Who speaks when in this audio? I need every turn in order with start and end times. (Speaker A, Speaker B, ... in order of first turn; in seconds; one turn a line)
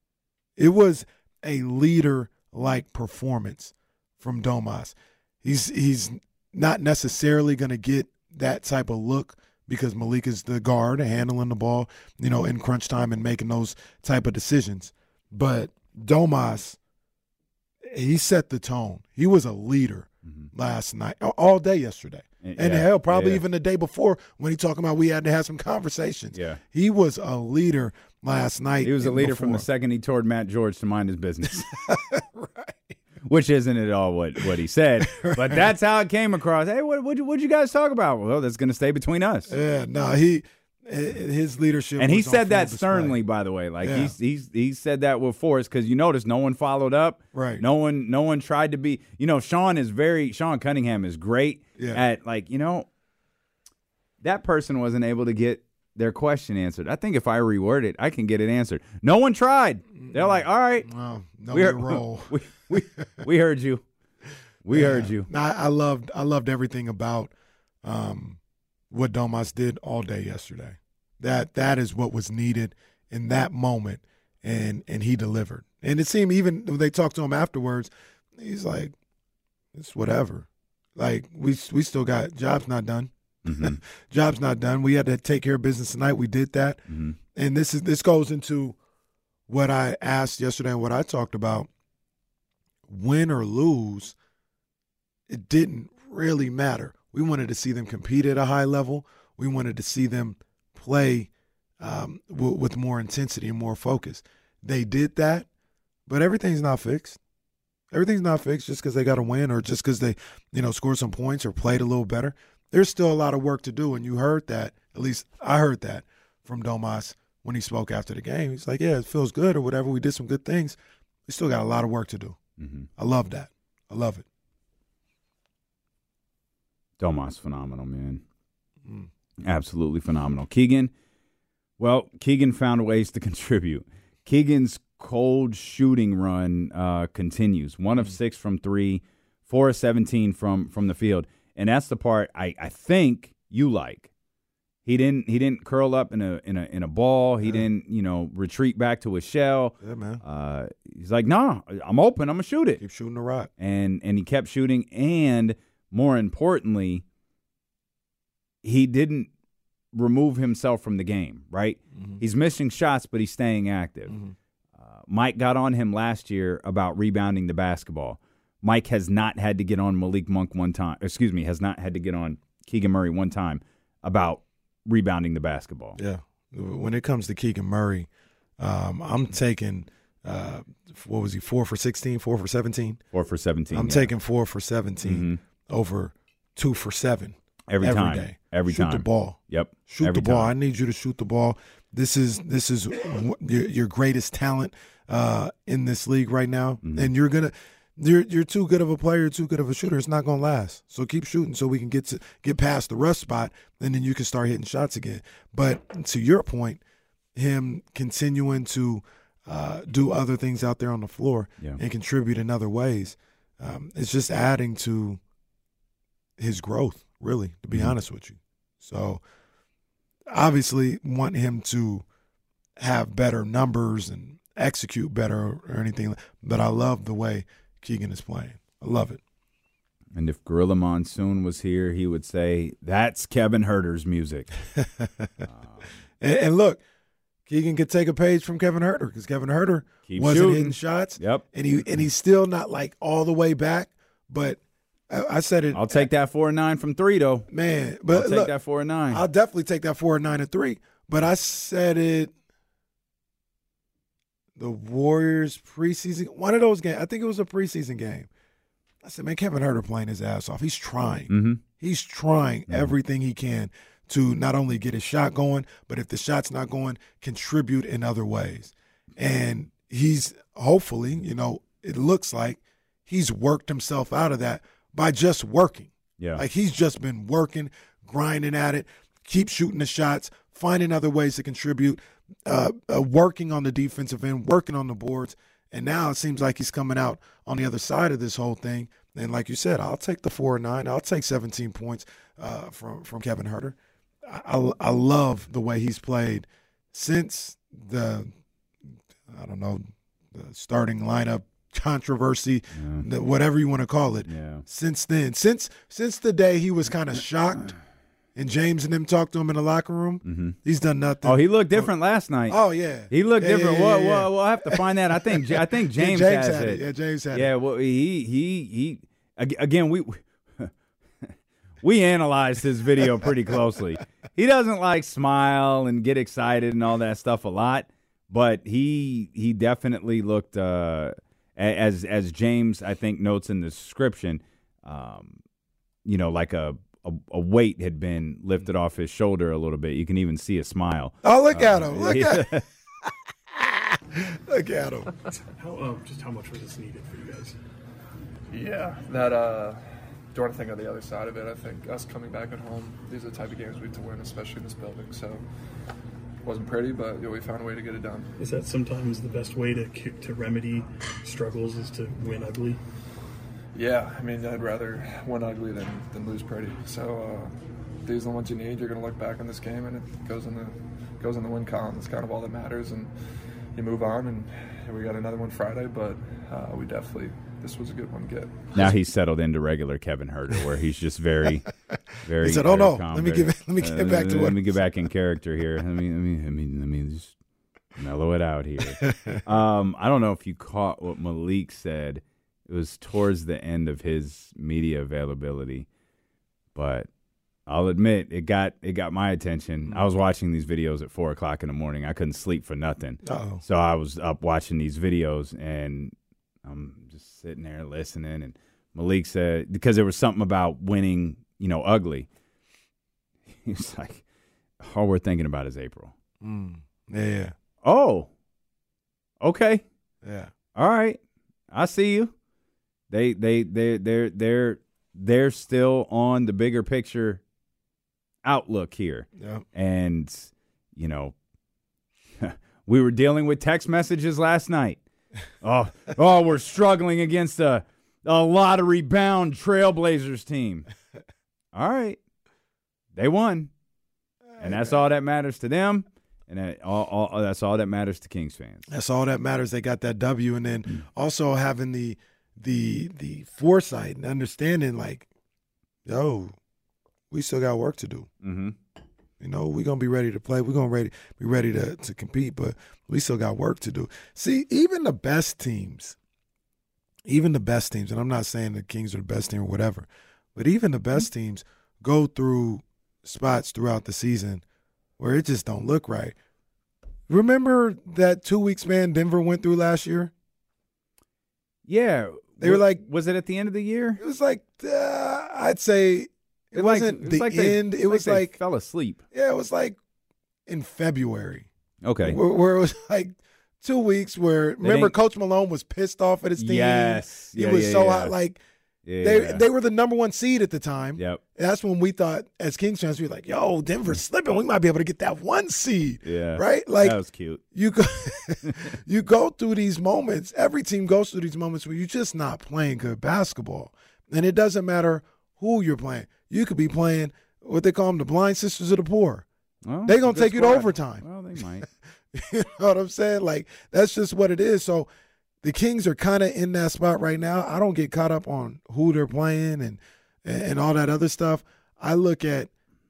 Speaker A: 0.6-16.8
Speaker A: 17.8-29.6
Speaker B: 22.4-23.4
Speaker B: 26.3-26.6
Speaker B: 28.8-31.8
Speaker A: 31.7-33.0
Speaker B: 33.3-39.5
Speaker A: 35.1-35.7
Speaker A: 39.5-43.2
Speaker B: 42.0-52.9
Speaker A: 43.8-44.1
Speaker A: 47.3-47.6
Speaker A: 51.8-52.0
Speaker B: 54.2-60.9
Speaker A: 60.0-62.8
Speaker B: 61.5-63.9
Speaker B: 64.6-65.3
Speaker A: 64.7-67.3
Speaker A: 67.8-68.4
Speaker A: 68.9-78.9
Speaker A: 79.7-86.8
Speaker B: 83.4-83.8
Speaker B: 86.9-87.2
Speaker A: 87.3-88.8
Speaker A: 89.5-91.7
Speaker A: 92.9-94.1
Speaker A: 95.3-105.5
Speaker A: 106.1-107.2
Speaker A: 107.9-122.4
Speaker B: 122.6-122.9
Speaker A: 123.0-124.3
Speaker B: 127.0-128.2
Speaker B: 129.4-130.9
Speaker B: 131.8-144.1
Speaker B: 144.9-152.8
Speaker A: 149.8-150.2
Speaker A: 152.8-153.5
Speaker B: 153.6-157.0
Speaker B: 158.6-159.3
Speaker B: 159.9-164.2
Speaker A: 161.9-162.2
Speaker B: 164.8-176.0
Speaker A: 175.9-178.1
Speaker A: 178.6-183.0
Speaker B: 183.1-184.1
Speaker A: 183.7-206.8
Speaker B: 185.1-185.4
Speaker B: 187.7-190.5
Speaker B: 196.8-197.1
Speaker A: 207.3-215.2
Speaker A: 216.4-219.2
Speaker A: 220.3-222.0
Speaker A: 222.8-229.2
Speaker B: 230.2-234.5
Speaker A: 234.8-235.3
Speaker B: 235.4-235.8
Speaker A: 236.2-236.8
Speaker A: 237.5-246.1
Speaker B: 240.1-241.4
Speaker B: 245.7-247.5
Speaker A: 247.5-248.5
Speaker B: 248.1-249.2
Speaker A: 249.1-252.3
Speaker A: 254.6-258.3
Speaker A: 259.0-298.3
Speaker B: 261.3-261.6
Speaker B: 276.2-276.4
Speaker A: 299.3-307.8
Speaker B: 302.7-303.1
Speaker B: 304.3-304.6
Speaker A: 308.4-311.9
Speaker B: 310.2-310.6
Speaker B: 311.2-312.6
Speaker A: 312.5-317.5
Speaker B: 313.1-316.8
Speaker B: 317.3-320.7
Speaker B: 321.2-335.4
Speaker B: 336.1-342.6
Speaker A: 341.2-345.1
Speaker C: 345.6-347.6
Speaker D: 348.5-355.4
Speaker D: 356.4-358.3
Speaker C: 358.4-362.8
Speaker D: 363.7-373.1
Speaker D: 373.7-378.7
Speaker B: 378.7-381.7
Speaker B: 382.2-387.4
Speaker A: 382.4-384.6
Speaker B: 387.9-395.9
Speaker A: 389.0-389.4
Speaker B: 396.8-397.1
Speaker B: 397.7-412.3
Speaker A: 403.2-403.6
Speaker B: 413.6-414.2
Speaker B: 414.8-416.1
Speaker A: 416.4-417.5
Speaker B: 417.8-418.3
Speaker B: 419.4-419.8
Speaker A: 420.2-420.5
Speaker B: 420.7-421.2
Speaker B: 421.7-422.3
Speaker B: 423.1-427.4
Speaker B: 428.4-431.4
Speaker A: 429.4-429.6
Speaker B: 432.4-435.0
Speaker B: 435.6-440.9
Speaker B: 441.7-442.2
Speaker B: 443.1-443.7
Speaker A: 444.5-444.9
Speaker B: 444.6-448.9
Speaker A: 448.9-455.3
Speaker A: 456.1-456.5
Speaker A: 457.3-458.3
Speaker B: 458.4-458.8
Speaker A: 459.4-466.1
Speaker A: 467.2-474.6
Speaker A: 475.2-476.4
Speaker A: 477.3-480.3
Speaker B: 481.9-484.2
Speaker A: 482.6-483.0
Speaker A: 484.2-488.5
Speaker B: 486.8-489.2
Speaker A: 489.3-490.0
Speaker A: 490.7-491.7
Speaker B: 492.0-492.4
Speaker A: 492.2-498.6
Speaker B: 494.8-495.1
Speaker B: 496.6-498.3
Speaker B: 499.0-499.6
Speaker A: 499.2-507.2
Speaker B: 501.2-501.4
Speaker B: 506.2-507.6
Speaker A: 507.7-519.4
Speaker B: 519.9-521.9
Speaker A: 520.0-521.2
Speaker A: 522.3-525.1
Speaker A: 525.6-532.7